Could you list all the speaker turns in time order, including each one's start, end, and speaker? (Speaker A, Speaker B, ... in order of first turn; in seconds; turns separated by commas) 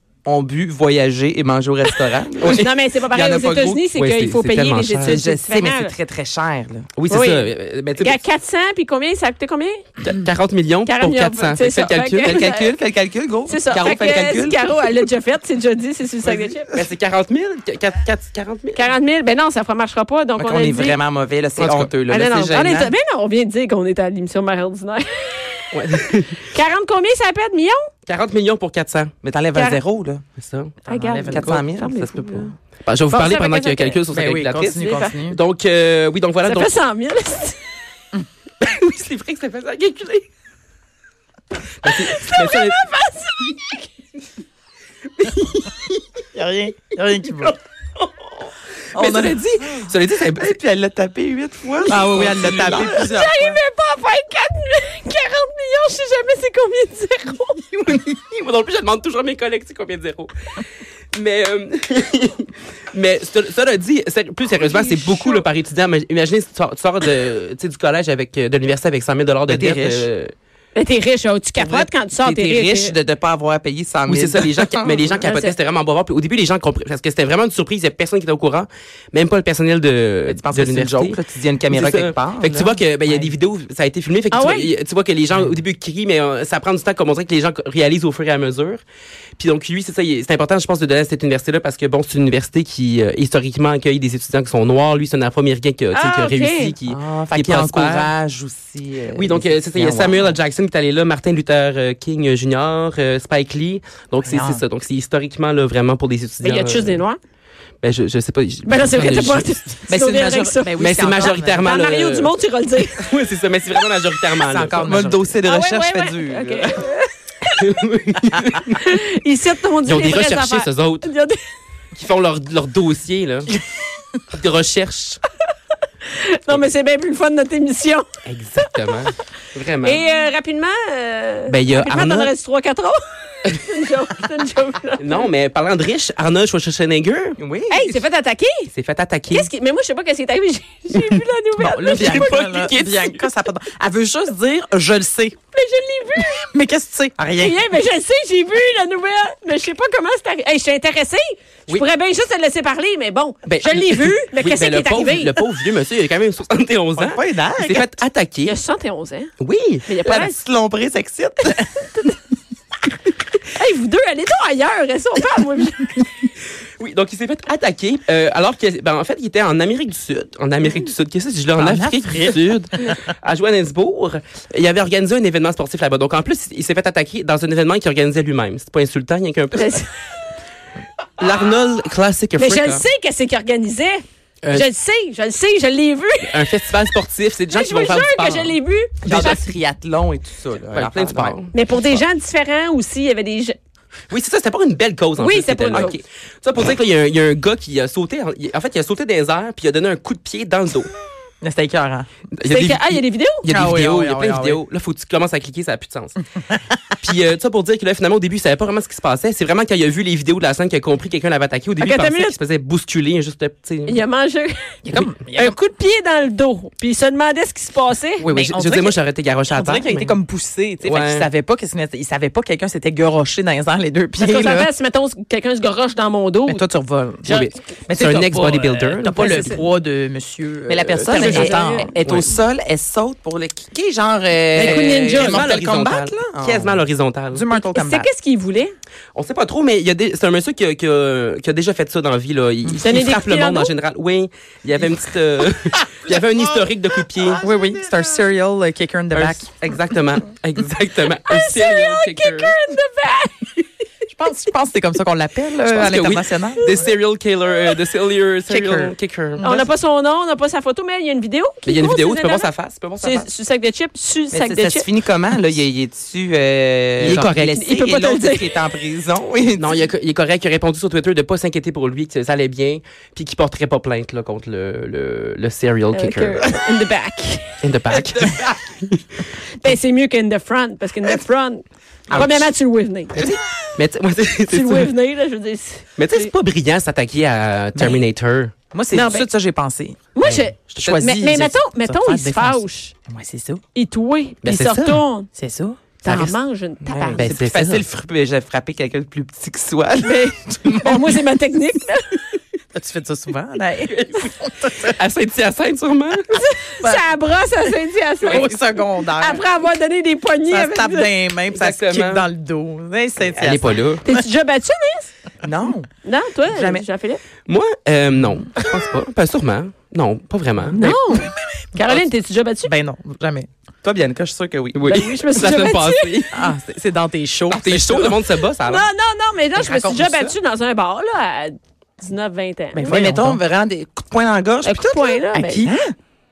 Speaker A: 0.2-3.8, Speaker B: 2.4-2.7, Speaker C: 2.4-5.9, Speaker B: 3.9-5.2, Speaker A: 5.0-6.9, Speaker B: 7.0-8.2, Speaker C: 7.1-9.9, Speaker B: 10.0-12.4, Speaker C: 10.9-12.8, Speaker A: 12.2-14.7, Speaker C: 13.5-16.8, Speaker B: 16.7-18.9, Speaker C: 18.7-21.0, Speaker A: 20.4-22.9, Speaker B: 21.6-21.9, Speaker C: 22.1-27.9, Speaker B: 25.7-26.5, Speaker B: 28.1-29.1, Speaker A: 29.2-30.2, Speaker C: 29.5-29.8, Speaker B: 30.4-30.7, Speaker D: 30.8-31.6, Speaker C: 30.9-32.5, Speaker A: 31.3-32.5, Speaker B: 32.8-36.7, Speaker C: 33.1-34.0, Speaker D: 34.1-35.4, Speaker C: 34.7-35.1, Speaker C: 36.4-37.6, Speaker B: 38.6-40.2, Speaker B: 41.8-42.8, Speaker C: 41.8-43.9, Speaker B: 45.2-45.8, Speaker D: 46.3-47.5, Speaker B: 48.0-50.5, Speaker D: 48.9-49.5, Speaker A: 50.3-53.0, Speaker D: 51.9-53.6, Speaker C: 51.9-57.8, Speaker B: 52.1-52.4, Speaker B: 57.8-60.3, Speaker B: 61.1-70.3, Speaker C: 64.6-65.3, Speaker A: 69.5-70.1, Speaker C: 70.7-72.9, Speaker A: 71.6-75.2, Speaker B: 74.1-81.2, Speaker C: 75.2-75.5, Speaker A: 80.3-83.3, Speaker B: 81.7-88.8, Speaker C: 84.3-84.7, Speaker B: 89.4-98.1, Speaker C: 95.9-96.7, Speaker A: 96.9-100.4, Speaker B: 99.1-107.0, Speaker D: 104.2-104.6, Speaker C: 106.4-107.2, Speaker B: 107.8-109.5, Speaker C: 108.6-113.1, Speaker D: 109.9-111.7, Speaker B: 110.8-112.3, Speaker B: 112.9-115.0, Speaker D: 114.4-115.3, Speaker A: 114.8-116.8, Speaker C: 115.4-117.7, Speaker B: 117.5-118.8, Speaker C: 118.7-121.4, Speaker B: 119.8-121.1, Speaker B: 121.9-123.5, Speaker B: 124.3-125.2, Speaker C: 126.0-128.1, Speaker B: 128.2-130.0, Speaker C: 128.6-128.9, Speaker C: 129.8-135.3, Speaker B: 131.5-132.3, Speaker B: 135.0-137.4, Speaker A: 137.4-137.9, Speaker C: 137.7-138.7, Speaker B: 138.7-139.5, Speaker C: 139.3-142.4, Speaker D: 141.6-145.4, Speaker B: 141.8-143.2, Speaker C: 145.5-146.5, Speaker D: 146.5-147.6, Speaker C: 147.3-155.4, Speaker B: 153.5-158.6, Speaker A: 156.9-157.9, Speaker C: 158.4-159.3, Speaker B: 159.4-159.8, Speaker C: 159.8-160.3, Speaker A: 160.0-161.9, Speaker C: 163.5-166.0, Speaker B: 166.8-179.8, Speaker D: 171.6-173.0, Speaker C: 179.5-179.9, Speaker B: 181.2-182.8, Speaker C: 182.4-186.4, Speaker B: 186.3-189.4, Speaker C: 187.5-189.4, Speaker A: 189.1-191.3, Speaker B: 190.7-192.0, Speaker C: 191.5-193.6, Speaker B: 194.1-200.9, Speaker C: 195.2-196.0, Speaker D: 201.4-202.1, Speaker B: 202.3-206.2, Speaker C: 202.4-203.4, Speaker D: 203.5-204.6, Speaker D: 206.5-206.8, Speaker B: 207.0-214.0, Speaker C: 211.8-212.3, Speaker C: 213.9-218.2, Speaker D: 214.8-215.6, Speaker B: 218.2-220.1, Speaker D: 218.2-224.7, Speaker B: 220.8-221.3, Speaker C: 224.2-226.6, Speaker D: 226.4-232.3, Speaker B: 227.2-229.6, Speaker C: 229.2-229.6, Speaker A: 230.7-236.8, Speaker B: 231.1-231.4, Speaker C: 231.1-231.9, Speaker B: 232.0-232.3, Speaker C: 234.5-235.4, Speaker B: 234.6-237.4, Speaker D: 235.1-235.4, Speaker D: 237.3-238.1, Speaker C: 237.7-238.7, Speaker B: 239.1-247.4, Speaker C: 242.8-243.7, Speaker A: 247.3-248.0, Speaker D: 247.4-249.5, Speaker B: 249.1-252.5, Speaker C: 251.2-253.5, Speaker D: 254.1-256.7, Speaker B: 255.7-259.4, Speaker C: 256.6-256.9, Speaker D: 258.5-259.7, Speaker C: 259.4-264.9, Speaker B: 261.6-263.3, Speaker A: 264.3-269.8, Speaker B: 267.0-267.6, Speaker C: 267.4-268.6, Speaker B: 269.6-276.5, Speaker C: 275.9-277.6, Speaker B: 277.6-279.3, Speaker C: 279.5-283.3, Speaker B: 282.1-282.5, Speaker B: 283.1-284.9, Speaker C: 284.5-286.3, Speaker B: 286.0-288.5, Speaker D: 287.7-288.0, Speaker D: 288.7-290.0, Speaker C: 288.9-289.3, Speaker C: 290.1-292.9, Speaker B: 290.2-290.8, Speaker D: 290.8-293.6, Speaker C: 293.7-295.3, Speaker B: 294.4-295.0, Speaker D: 295.3-295.8, Speaker C: 296.0-297.3, Speaker B: 296.1-296.3, Speaker A: 296.8-301.1, Speaker B: 297.2-297.8, Speaker C: 300.0-302.2, Speaker D: 302.7-305.0, Speaker B: 303.9-306.4, Speaker C: 306.3-311.1, Speaker D: 306.8-307.1, Speaker D: 308.2-309.4, Speaker D: 310.5-314.2, Speaker B: 311.5-312.2, Speaker B: 313.3-314.0, Speaker C: 314.0-315.1, Speaker A: 315.4-315.9, Speaker C: 316.0-317.2, Speaker A: 316.4-316.8, Speaker B: 317.5-321.0, Speaker C: 320.7-322.7, Speaker D: 322.6-323.5, Speaker A: 323.8-325.1, Speaker B: 324.7-326.4, Speaker C: 324.9-326.3, Speaker D: 326.3-328.2, Speaker B: 327.5-328.9, Speaker C: 328.6-332.9, Speaker D: 329.6-330.4, Speaker D: 332.7-333.4, Speaker A: 332.9-335.7, Speaker C: 334.6-335.7, Speaker D: 335.4-335.9